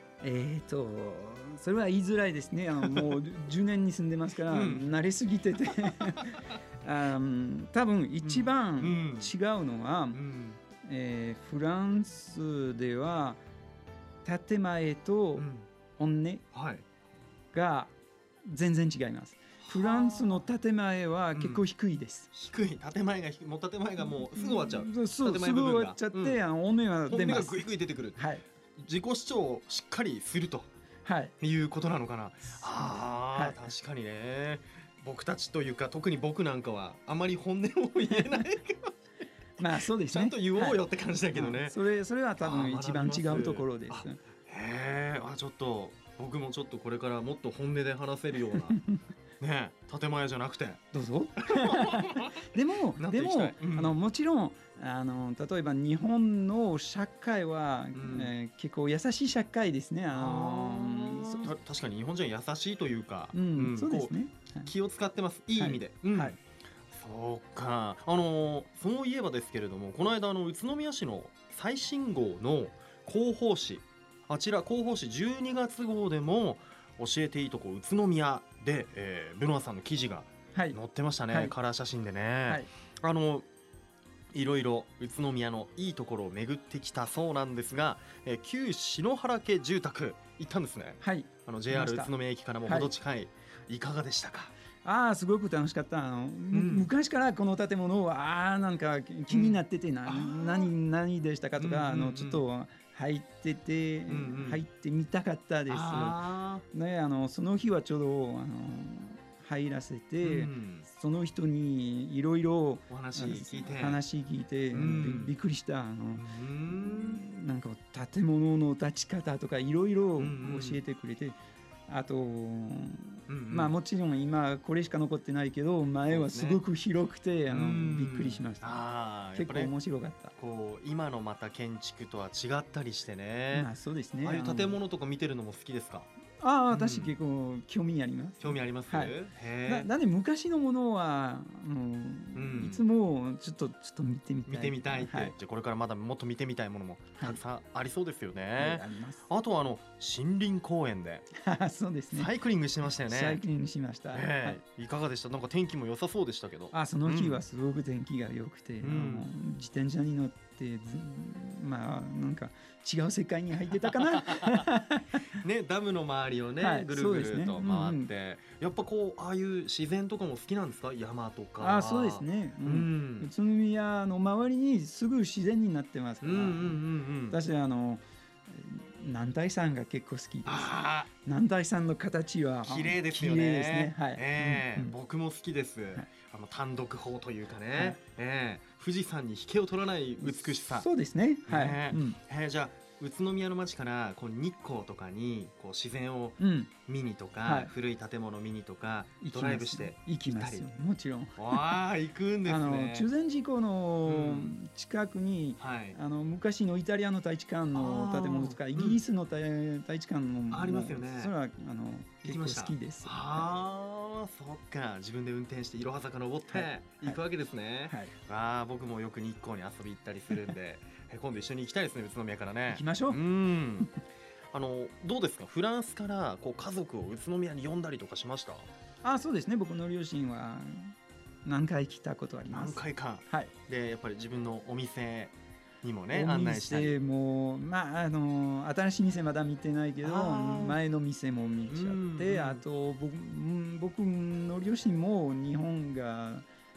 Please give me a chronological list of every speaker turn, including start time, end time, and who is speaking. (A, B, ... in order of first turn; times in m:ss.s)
0:00.2-0:10.2 A
0:02.8-0:03.1 B
0:04.5-0:04.9 B
0:06.1-0:06.4 B
0:08.2-0:09.3 B
0:10.1-0:10.6 B
0:10.8-0:13.4 A
0:14.2-0:15.4 A
0:15.4-0:15.7 B
0:16.0-0:16.4 A
0:16.5-0:16.8 B
0:17.5-0:17.9 A
0:18.4-0:22.3 A
0:19.6-0:20.4 B
0:21.3-0:21.6 B
0:22.3-0:26.4 B
0:24.0-0:28.4 A
0:27.1-0:28.2 B
0:28.8-0:30.7 B
0:31.0-0:31.3 A
0:31.4-0:38.9 B
0:32.6-0:33.6 A
0:39.6-0:40.8 A
0:39.6-0:41.8 B
0:41.3-0:44.2 A
0:42.4-0:48.8 B
0:48.5-0:49.0 A
0:49.4-0:50.8 B
0:50.9-1:01.5 A
0:51.5-0:54.0 B
0:57.9-0:58.3 B
1:00.1-1:06.4 B
1:03.3-1:04.7 A
1:05.6-1:06.4 A
1:06.9-1:23.5 B
1:21.3-1:21.5 A
1:24.3-1:34.5 B
1:31.0-1:32.1 A
1:32.6-1:32.9 A
1:34.8-1:46.2 A
1:36.5-1:36.9 B
1:39.3-1:40.7 B
1:41.6-1:42.4 B
1:44.1-1:44.6 B
1:45.7-1:46.6 B
1:46.7-2:01.4 A
1:50.2-1:50.9 B
1:52.9-1:54.0 B
1:54.7-1:55.3 B
1:56.1-1:57.2 B
2:00.2-2:00.8 B
2:01.9-2:08.8 A
2:03.3-2:03.7 B
2:06.1-2:06.6 B
2:07.5-2:09.7 B
2:09.3-2:10.3 A
2:10.3-2:13.7 B
2:13.5-2:14.8 A
2:14.2-2:16.1 B
2:16.4-2:25.3 A
2:16.7-2:17.1 B
2:18.4-2:19.9 B
2:22.3-2:22.8 B
2:24.5-2:31.3 B
2:28.6-2:29.2 A
2:31.4-2:32.3 A
2:32.1-2:33.4 B
2:33.0-2:34.6 A
2:34.1-2:37.4 B
2:36.7-2:45.2 A
2:38.8-2:39.3 B
2:43.9-2:44.7 B
2:45.4-2:53.3 B
2:46.6-2:48.1 A
2:51.6-3:04.9 A
2:56.2-2:57.4 B
3:00.4-3:01.1 B
3:02.6-3:10.9 B
3:07.7-3:08.0 A
3:10.2-3:12.2 A
3:11.5-3:20.7 B
3:16.4-3:16.7 A
3:17.4-3:17.7 A
3:19.2-3:21.8 A
3:21.4-3:23.1 B
3:22.4-3:33.4 A
3:24.0-3:24.6 B
3:25.6-3:26.0 B
3:27.7-3:29.0 B
3:30.5-3:31.3 B
3:32.2-3:43.9 B
3:36.5-3:37.2 A
3:42.7-3:43.2 A
3:44.5-3:48.7 B
3:49.0-3:53.5 A
3:52.5-3:57.0 B
3:56.1-4:06.4 A
4:00.0-4:00.8 B
4:01.7-4:02.6 B